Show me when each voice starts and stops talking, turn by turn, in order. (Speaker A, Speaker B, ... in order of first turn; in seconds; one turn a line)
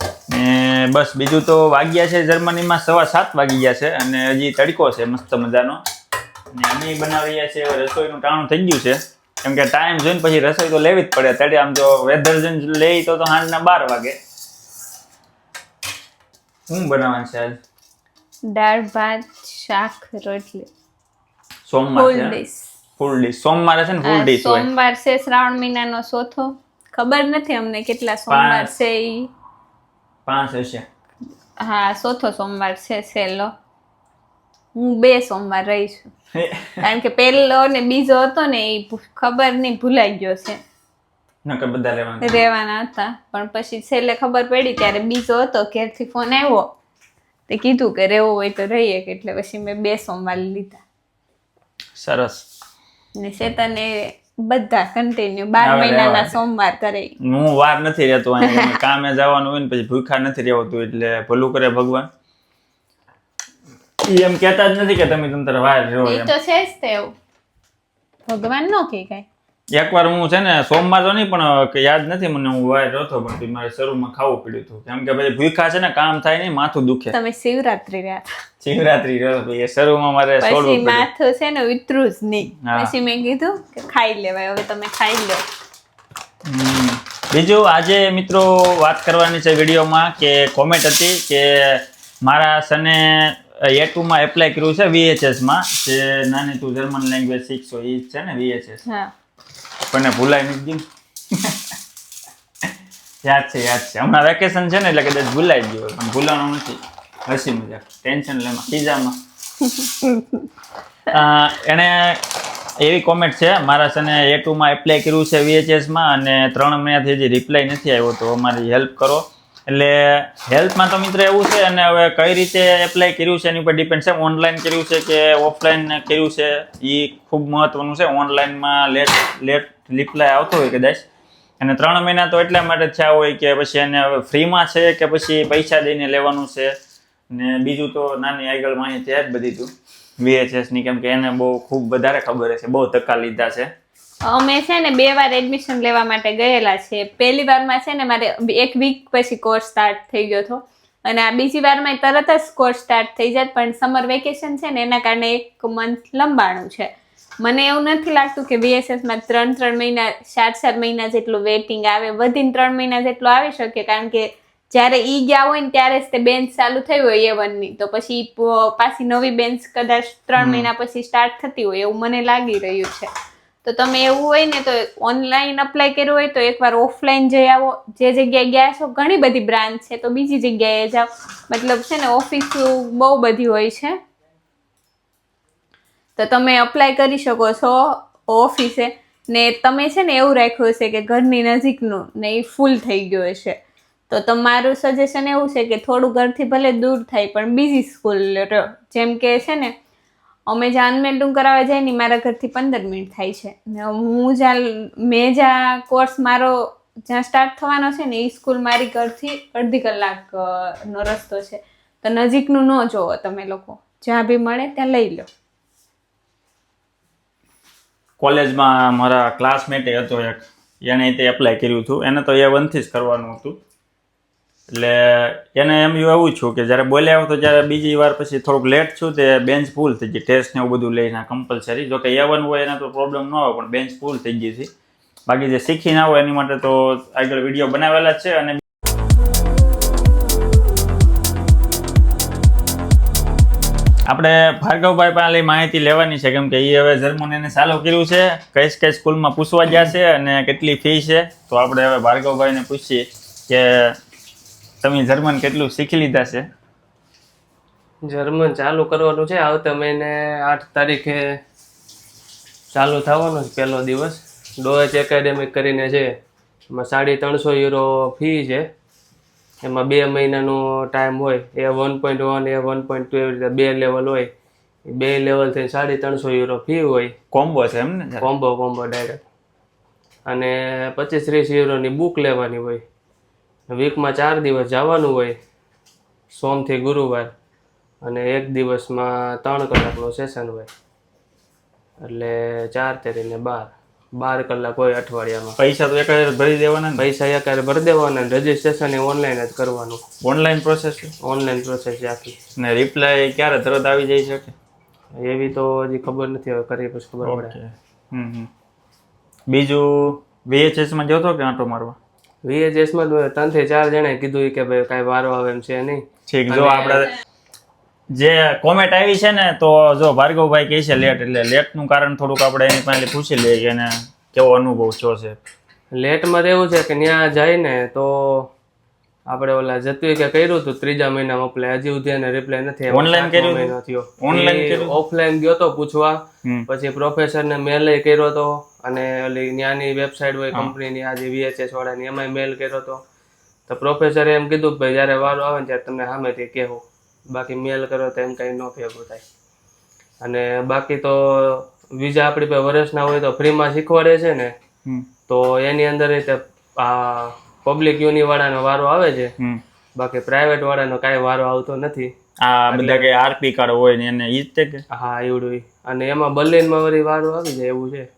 Speaker A: 0.3-5.8
Speaker A: 6.5-14.2
Speaker A: 16.7-17.6
Speaker B: 18.5-20.7
Speaker A: 21.6-22.4
Speaker B: 21.9-22.7
Speaker A: 23.0-24.7
Speaker B: 24.0-29.3
Speaker A: 28.3-28.8
Speaker A: 30.2-30.8
Speaker B: 31.6-33.5
Speaker B: 34.7-36.1
Speaker A: 36.4-36.7
Speaker B: 36.8-40.6
Speaker A: 41.4-42.4
Speaker B: 42.2-46.7
Speaker B: 47.5-50.8
Speaker A: 52.0-52.4
Speaker B: 53.2-57.1
Speaker A: 55.6-56.4
Speaker A: 57.2-62.1
Speaker B: 58.4-58.8
Speaker A: 64.0-66.3
Speaker B: 66.0-67.1
Speaker B: 68.3-69.2
Speaker A: 69.7-77.1
Speaker B: 77.1-78.2
Speaker A: 78.6-81.0
Speaker B: 80.4-85.4
Speaker A: 82.6-82.9
Speaker A: 86.5-98.8
Speaker B: 98.8-99.1
Speaker A: 99.9-101.6
Speaker A: 103.2-109.2
Speaker B: 109.8-110.4
Speaker A: 111.1-112.2
Speaker A: 112.8-131.0
Speaker A: 131.6-136.7
Speaker A: 137.3-143.7
Speaker B: 144.2-173.1
Speaker A: 170.4-170.7
Speaker B: 173.6-184.0
Speaker B: 186.2-193.6
Speaker B: 194.1-199.7
Speaker B: 200.5-215.3
Speaker A: 218.2-223.6
Speaker A: 224.7-234.7
Speaker A: 235.3-238.6
Speaker A: 244.1-253.9
Speaker A: 254.8-256.4
Speaker C: 258.1-261.2
Speaker C: 262.7-266.1
Speaker C: 266.7-268.7
Speaker C: 269.6-274.3
Speaker C: 274.9-277.1
Speaker A: 277.3-278.3
Speaker C: 278.2-279.2
Speaker C: 280.3-282.8
Speaker C: 283.7-285.4
Speaker C: 286.3-287.3
Speaker C: 288.0-290.7
Speaker C: 292.0-295.6
Speaker A: 295.6-297.1
Speaker C: 297.0-300.0
Speaker A: 300.2-301.1
Speaker C: 301.2-302.4
Speaker A: 302.6-304.5
Speaker C: 305.1-307.6
Speaker A: 307.2-308.5
Speaker A: 309.5-312.0
Speaker C: 312.4-317.1
Speaker A: 316.3-317.1
Speaker A: 318.1-325.4
Speaker C: 325.9-328.5
Speaker C: 329.3-343.0
Speaker A: 332.9-334.9
Speaker C: 343.7-349.2
Speaker C: 350.2-354.5
Speaker C: 355.3-359.3
Speaker C: 359.9-362.1
Speaker A: 362.4-364.8
Speaker C: 362.7-363.1
Speaker C: 364.9-368.1